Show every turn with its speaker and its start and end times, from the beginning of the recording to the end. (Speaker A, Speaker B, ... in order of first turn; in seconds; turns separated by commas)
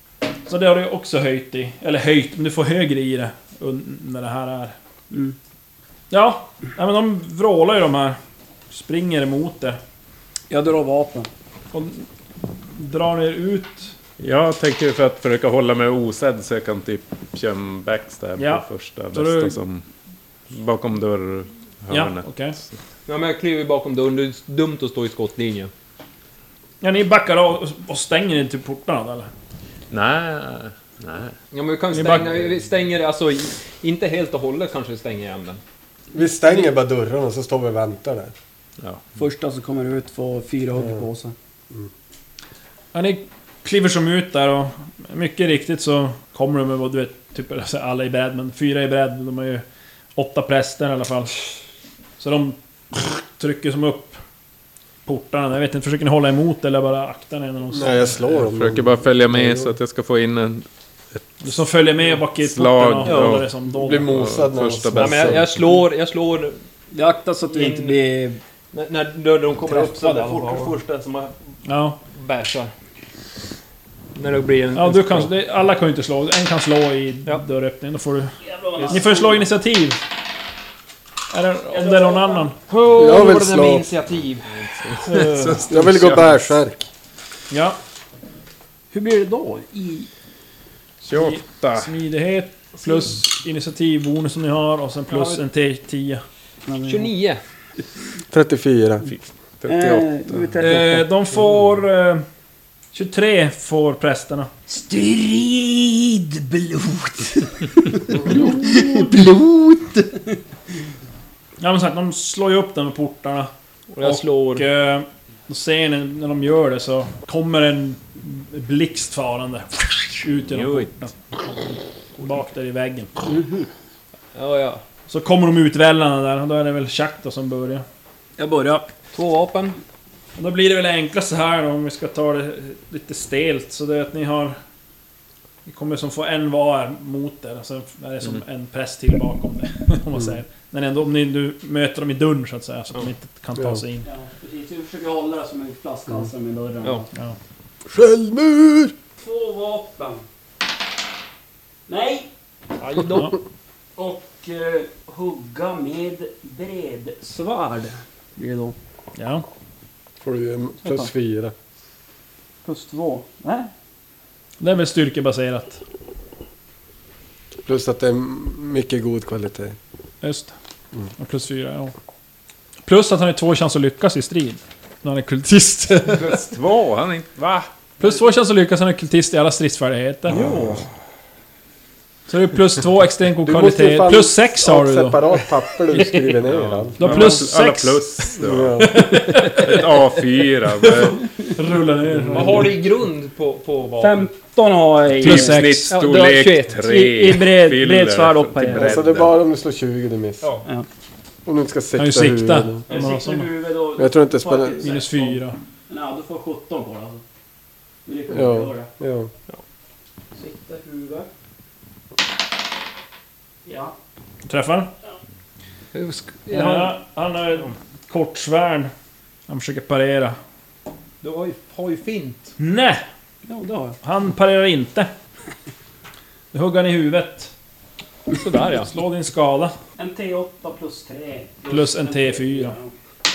Speaker A: 0.5-4.8, Speaker A: 6.1-8.2, Speaker A: 8.7-9.8, Speaker B: 10.5-11.3, Speaker A: 11.7-13.9, Speaker C: 14.2-19.9, Speaker A: 18.4-19.6, Speaker C: 20.5-22.8, Speaker A: 21.9-22.6, Speaker D: 23.1-25.7, Speaker A: 26.8-29.3, Speaker C: 29.9-31.4, Speaker D: 31.5-35.6, Speaker C: 31.9-32.5, Speaker E: 36.1-38.3, Speaker B: 36.2-36.7, Speaker C: 38.8-39.0, Speaker B: 39.2-41.4, Speaker A: 42.9-49.6, Speaker A: 50.2-51.4, Speaker A: 52.2-54.2, Speaker A: 55.1-58.2, Speaker E: 57.7-59.7, Speaker C: 58.3-61.2, Speaker A: 61.4-64.2, Speaker C: 62.4-65.5, Speaker B: 63.1-63.4, Speaker E: 63.7-65.5, Speaker D: 65.0-66.6, Speaker B: 66.9-68.4, Speaker D: 67.5-68.0, Speaker D: 68.7-71.3, Speaker B: 69.6-70.9, Speaker A: 71.7-72.0, Speaker D: 72.1-72.7, Speaker D: 74.2-75.3, Speaker A: 74.8-78.3, Speaker B: 78.4-79.4, Speaker A: 78.9-80.0, Speaker A: 81.3-82.5, Speaker B: 81.7-82.5, Speaker D: 82.7-84.5, Speaker E: 82.9-83.9, Speaker C: 84.5-86.4, Speaker A: 85.1-85.6, Speaker E: 85.7-86.8, Speaker A: 87.5-87.8, Speaker B: 88.9-90.1, Speaker C: 91.0-91.9, Speaker A: 91.0-96.2, Speaker B: 96.7-97.1, Speaker D: 96.8-97.4, Speaker E: 98.3-99.1, Speaker C: 99.1-100.6, Speaker B: 99.7-101.1, Speaker A: 100.6-102.2, Speaker A: 102.9-104.5, Speaker B: 104.7-110.4, Speaker A: 108.3-108.9, Speaker A: 111.6-123.1, Speaker D: 113.9-114.6, Speaker C: 120.5-121.1, Speaker B: 123.3-123.7, Speaker D: 124.3-124.8, Speaker A: 125.1-127.8, Speaker B: 128.4-128.9, Speaker D: 129.1-129.8, Speaker A: 130.4-134.6, Speaker A: 135.7-144.1, Speaker E: 143.6-143.8, Speaker B: 144.0-147.1, Speaker E: 147.9-148.9, Speaker B: 149.2-150.2, Speaker B: 151.9-152.3, Speaker D: 152.8-153.3, Speaker B: 154.0-158.8, Speaker A: 159.2-159.4, Speaker E: 160.2-161.5, Speaker B: 160.8-161.1, Speaker B: 162.7-163.7, Speaker A: 164.6-165.8, Speaker E: 167.7-169.8, Speaker A: 170.2-170.5, Speaker A: 171.2-171.9, Speaker A: 172.9-176.3, Speaker C: 176.0-177.7, Speaker A: 178.0-180.8, Speaker A: 182.3-185.2, Speaker E: 183.4-187.3, Speaker D: 186.0-186.4, Speaker C: 186.5-191.2, Speaker A: 187.0-188.0, Speaker E: 188.4-189.2, Speaker A: 188.8-189.8, Speaker A: 190.8-192.8, Speaker E: 192.2-192.6, Speaker D: 192.3-194.3, Speaker B: 194.0-195.6, Speaker C: 195.2-199.3, Speaker A: 195.2-196.0, Speaker D: 195.9-197.1, Speaker B: 196.8-199.0, Speaker E: 198.8-200.5, Speaker E: 201.5-202.8, Speaker A: 202.0-203.5, Speaker B: 202.9-207.2, Speaker E: 204.0-204.9, Speaker A: 204.8-205.6, Speaker B: 208.1-208.9, Speaker E: 208.3-209.3, Speaker B: 210.3-211.3, Speaker B: 213.7-213.9, Speaker A: 214.5-214.9, Speaker D: 215.9-217.0, Speaker A: 216.5-218.9, Speaker A: 219.5-220.4, Speaker D: 221.2-222.6, Speaker A: 222.6-223.0, Speaker B: 223.5-224.0, Speaker A: 224.0-225.1, Speaker A: 226.5-227.5, Speaker D: 228.3-228.9, Speaker A: 228.6-229.7, Speaker B: 230.0-232.9, Speaker A: 231.7-232.8